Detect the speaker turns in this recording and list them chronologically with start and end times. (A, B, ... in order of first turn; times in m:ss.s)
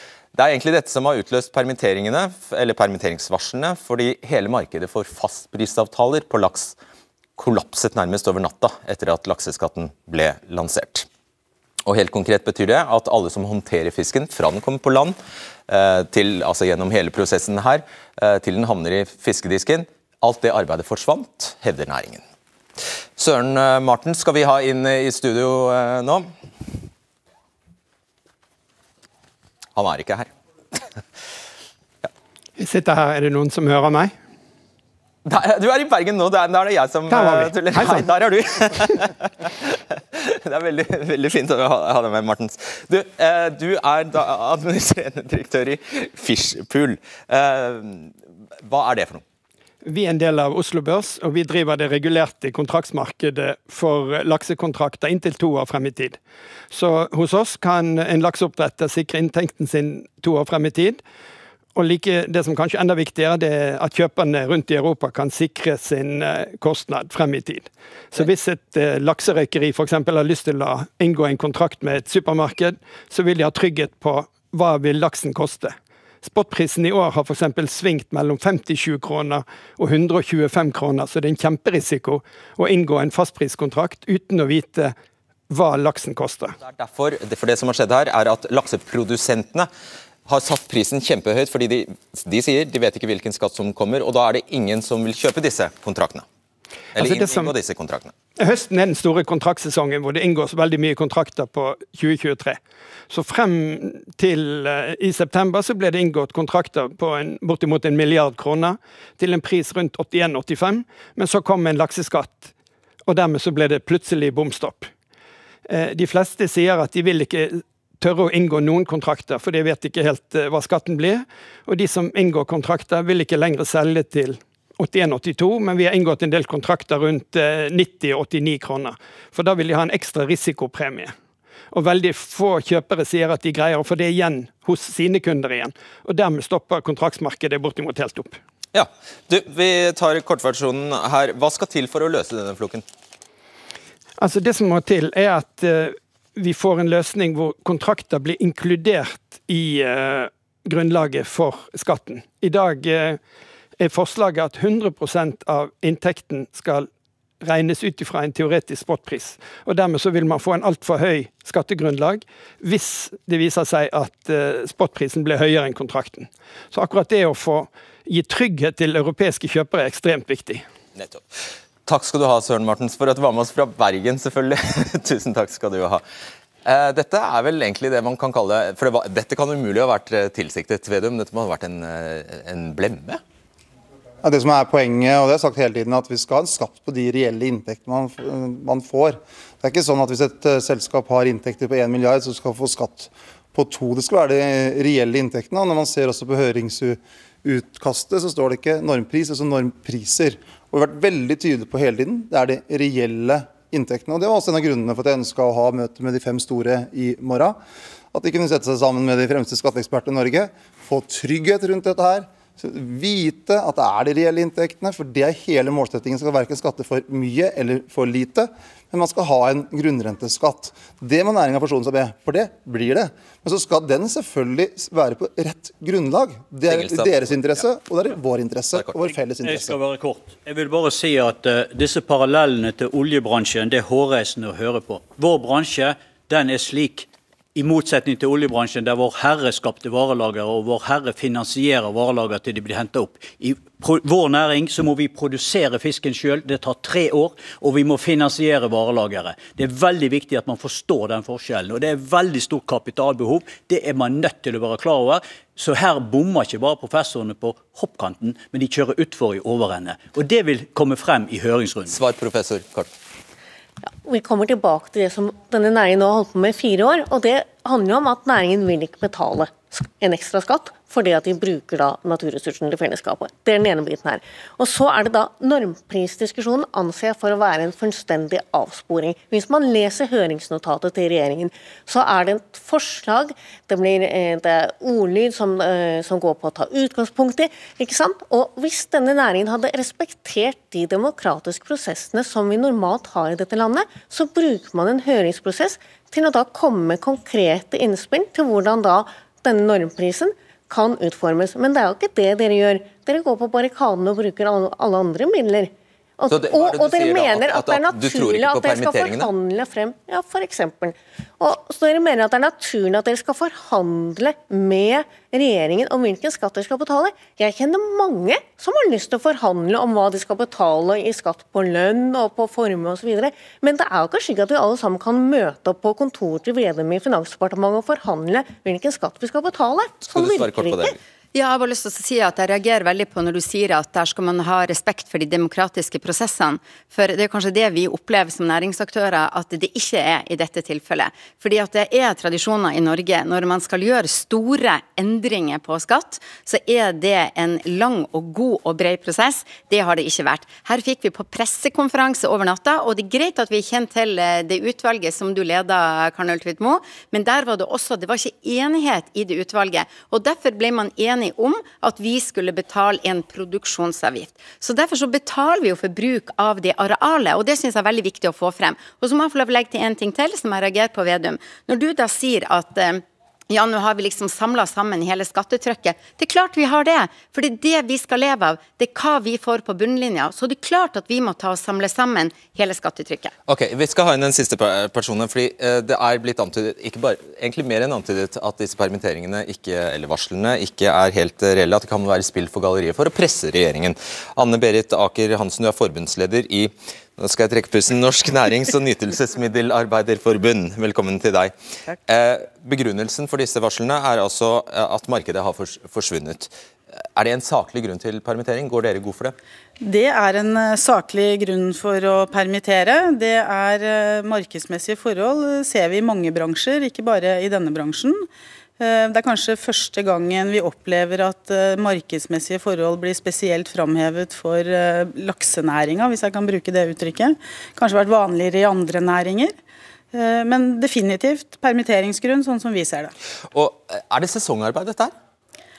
0:00.3-0:06.8 A
0:07.4-0:11.1 A
0:11.9-0:15.2 A
0:15.7-0:22.2 A
0:23.2-0:26.3 A
0:29.8-0:30.8 A
0:32.6-0:34.2 B
0:35.2-0:48.1 A
0:37.1-0:38.2 B
0:48.6-0:49.2 A
0:49.8-0:56.2 B
0:56.7-1:01.0 B
1:01.8-1:25.0 B
1:25.5-1:26.6 B
1:26.6-1:29.7 A
1:30.3-1:36.3 A
1:37.0-1:37.5 B
1:37.0-1:38.1 A
1:38.4-1:42.6 B
1:43.1-1:52.5 B
1:53.1-1:54.9 B
1:55.7-2:11.2 B
2:11.7-2:18.4 B
2:18.7-2:22.8 A
2:24.2-2:33.2 B
2:33.8-2:36.9 B
2:37.4-2:50.7 B
2:51.0-2:51.2 A
2:51.9-2:56.0 A
2:56.6-3:03.2 A
3:04.2-3:27.6 C
3:28.1-3:49.8 C
3:46.7-3:47.5 A
3:49.4-4:22.0 D
4:21.9-4:22.9 A
4:24.0-5:30.9 E
5:06.3-5:09.3 A
5:30.1-5:31.0 A
5:31.3-6:23.3 F
6:23.5-6:41.5 A
6:42.1-6:46.5 A
6:47.2-6:49.4 A
6:49.8-6:58.3 G
6:58.8-7:09.6 G
7:10.1-7:13.1 G
7:13.5-7:15.1 A